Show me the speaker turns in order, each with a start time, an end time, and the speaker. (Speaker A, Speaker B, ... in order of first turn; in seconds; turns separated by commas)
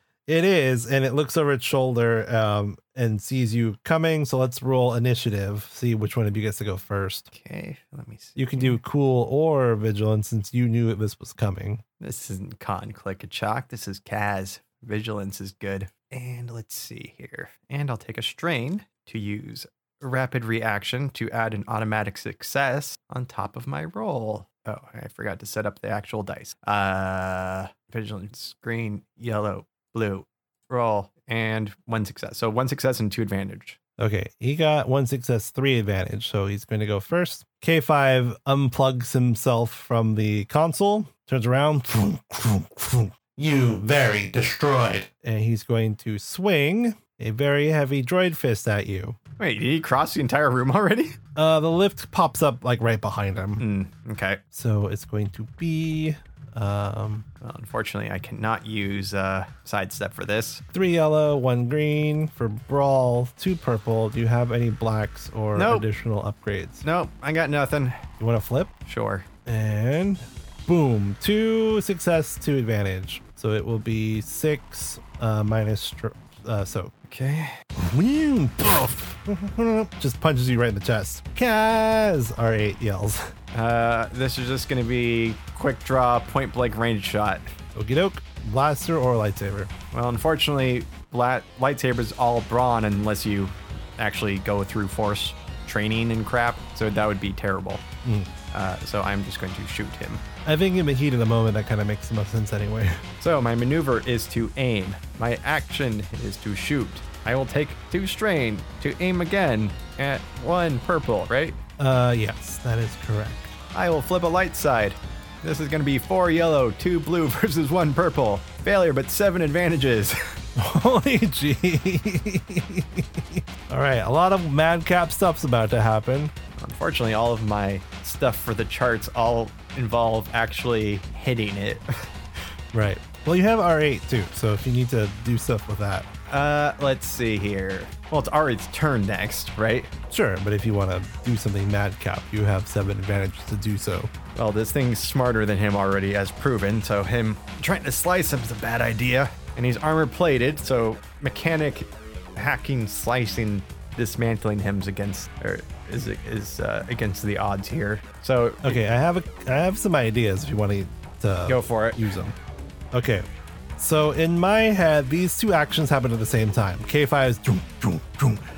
Speaker A: 0.3-7.3, Speaker B: 7.3-8.8, Speaker A: 8.3-11.8, Speaker B: 12.0-33.8, Speaker A: 34.0-49.2, Speaker B: 49.4-51.2, Speaker A: 51.4-53.6, Speaker B: 53.6-54.4, Speaker A: 54.5-57.2, Speaker B: 57.4-60.6, Speaker A: 60.7-66.8, Speaker B: 65.5-65.8, Speaker B: 66.8-68.0, Speaker A: 68.2-68.7, Speaker B: 68.8-69.3, Speaker A: 69.5-76.9, Speaker B: 77.0-77.5, Speaker A: 77.8-83.3, Speaker B: 83.5-87.5, Speaker A: 87.7-89.7, Speaker B: 89.9-97.8, Speaker A: 98.0-98.3, Speaker B: 98.5-100.2, Speaker A: 100.5-103.0, Speaker B: 103.2-111.6, Speaker A: 111.8-113.5, Speaker B: 113.7-120.3, Speaker A: 120.5-126.3, Speaker B: 126.6-132.1, Speaker A: 132.7-136.1, Speaker B: 136.3-139.9, Speaker A: 140.1-144.1, Speaker B: 144.3-158.8, Speaker A: 158.6-162.3, Speaker B: 161.5-162.0, Speaker A: 162.9-163.2, Speaker A: 163.8-168.4